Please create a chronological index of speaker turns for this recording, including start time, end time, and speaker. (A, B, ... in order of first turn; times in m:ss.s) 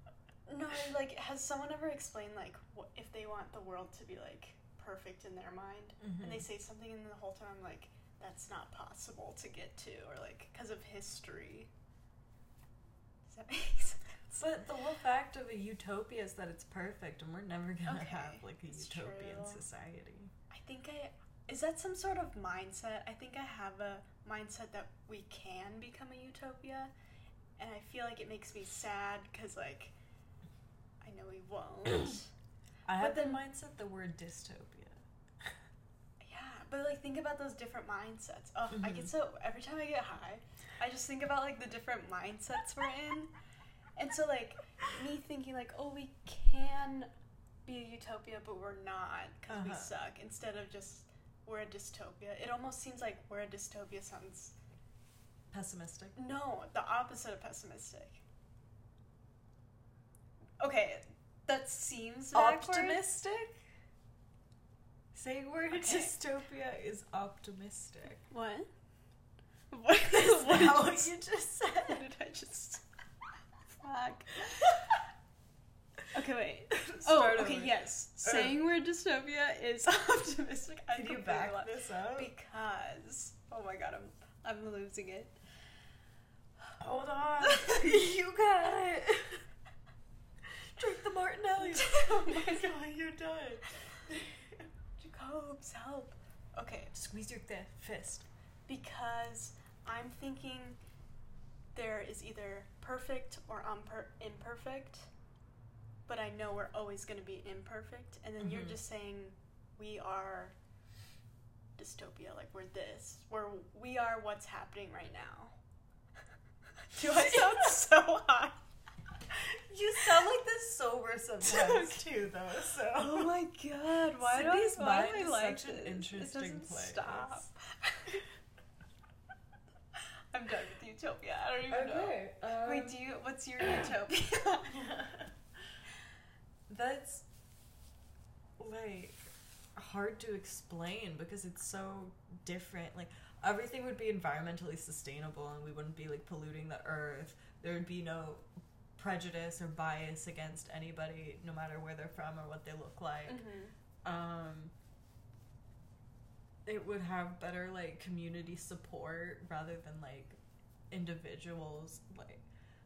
0:00.5-0:11.7 A
0:06.0-0:06.4 B
0:13.3-0:14.2 A
0:14.3-0:20.3 B
0:17.8-0:19.6 A
0:20.5-0:26.9 A
0:27.6-0:29.9 A
0:31.0-0:32.3 A
0:32.8-0:35.5 B
0:33.0-0:33.4 A
0:36.2-0:43.3 A
0:38.7-0:39.1 B
0:44.0-0:47.1 A
0:47.6-0:54.6 A
0:49.5-0:49.9 B
0:55.5-0:56.2 B
0:56.2-0:58.2 A
1:00.6-1:03.0 A
1:02.3-1:03.6 B
1:05.1-1:08.2 B
1:05.7-1:06.1 A
1:08.3-1:08.7 A
1:09.7-1:11.2 A
1:10.1-1:12.0 B
1:11.8-1:12.8 A
1:13.7-1:14.8 A
1:16.1-1:25.4 A
1:16.7-1:18.6 B
1:20.9-1:22.3 B
1:26.8-1:29.4 B
1:27.4-1:27.9 A
1:30.8-1:34.6 B
1:31.6-1:32.7 A
1:35.0-1:36.9 A
1:36.9-1:38.2 B
1:38.7-1:40.8 A
1:41.7-1:45.1 A
1:46.1-1:50.5 A
1:48.4-1:48.8 B
1:51.8-1:55.5 A
1:56.9-1:58.6 A
1:57.0-1:57.7 B
1:59.3-2:03.4 B
2:01.4-2:02.0 A
2:02.9-2:08.2 A
2:04.2-2:07.4 B
2:10.3-2:14.8 A
2:11.7-2:13.0 B
2:14.7-2:15.3 B
2:16.7-2:17.2 B
2:18.6-2:28.4 B
2:29.0-2:33.4 B
2:33.3-2:33.7 A
2:34.0-2:34.7 B
2:36.6-2:40.4 B
2:40.9-2:42.4 B